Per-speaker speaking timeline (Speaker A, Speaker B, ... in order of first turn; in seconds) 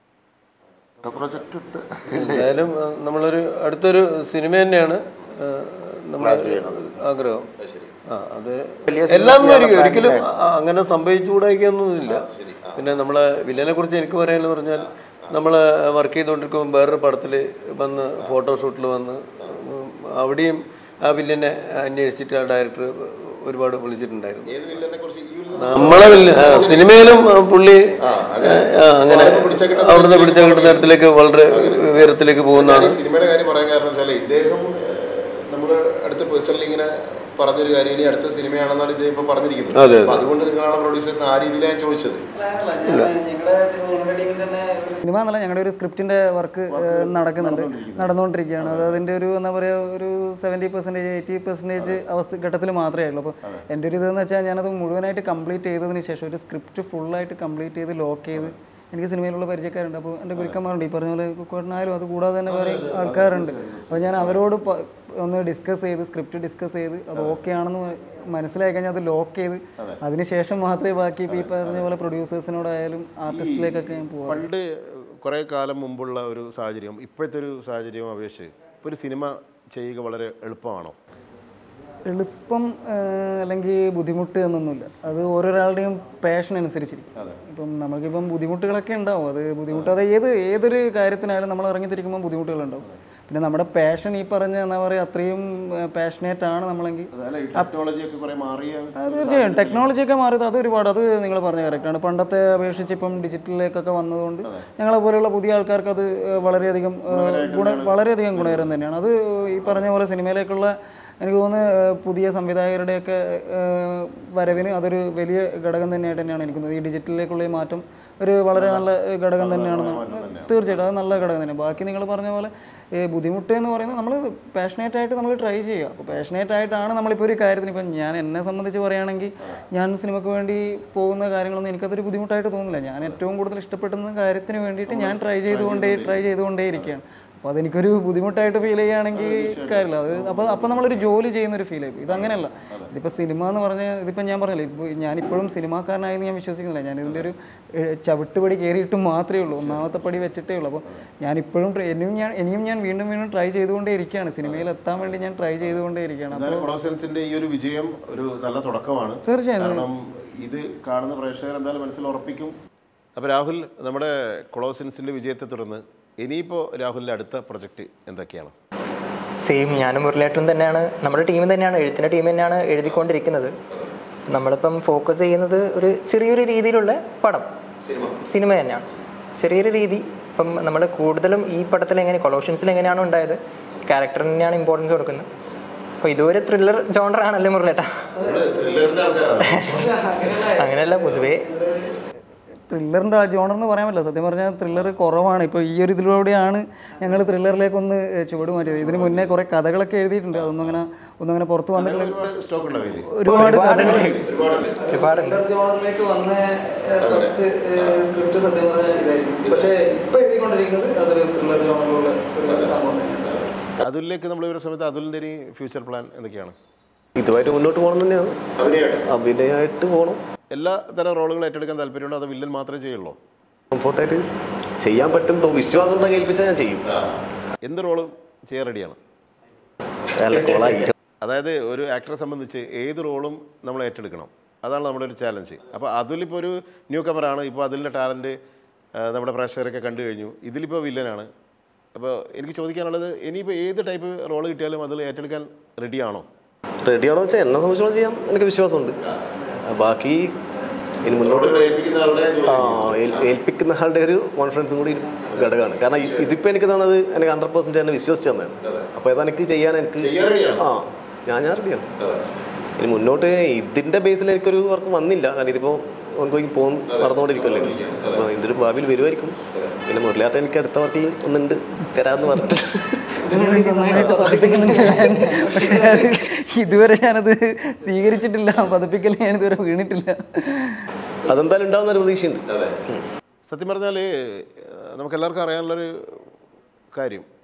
Speaker A: 1.0-2.5, 6.2-6.9, 8.9-10.2
Speaker B: 2.1-7.5, 8.1-24.5, 25.6-27.8, 28.4-33.0, 39.7-40.2
Speaker C: 7.6-7.9, 12.0-12.8, 14.8-15.3, 24.5-27.2, 28.0-30.9, 31.5-42.2, 46.7-49.0, 62.5-64.4, 71.3-71.9, 73.2-81.0, 97.1-99.9, 107.1-108.7, 118.5-120.7, 134.9-136.3, 139.1-141.1, 142.1-142.9, 149.6-149.9, 156.3-162.6, 163.2-168.5, 188.2-189.9, 198.8-199.2, 200.3-200.7, 201.7-204.8, 207.0-208.0, 213.8-216.6, 218.6-219.0, 220.5-223.2, 227.6-229.0, 230.3-238.4, 238.9-241.3, 241.9-246.3, 251.0-253.3, 255.9-256.3, 260.0-260.8, 267.0-268.2, 283.4-286.3, 286.9-287.3
Speaker D: 42.3-74.4, 82.0-97.7, 99.0-156.7, 159.2-159.9, 188.2-191.9, 192.7-202.2, 203.1-213.4, 273.2-280.8
Speaker E: 169.4-173.5, 174.3-177.5, 178.2-185.2, 186.0-188.0, 189.5-189.9, 190.5-191.4, 203.3-204.2, 204.9-205.4
Speaker F: 217.2-220.2, 223.7-224.3, 224.8-226.9, 230.2-230.9, 246.8-249.0, 249.6-250.4, 251.0-251.7, 252.4-261.9, 262.8-275.9, 281.3-283.0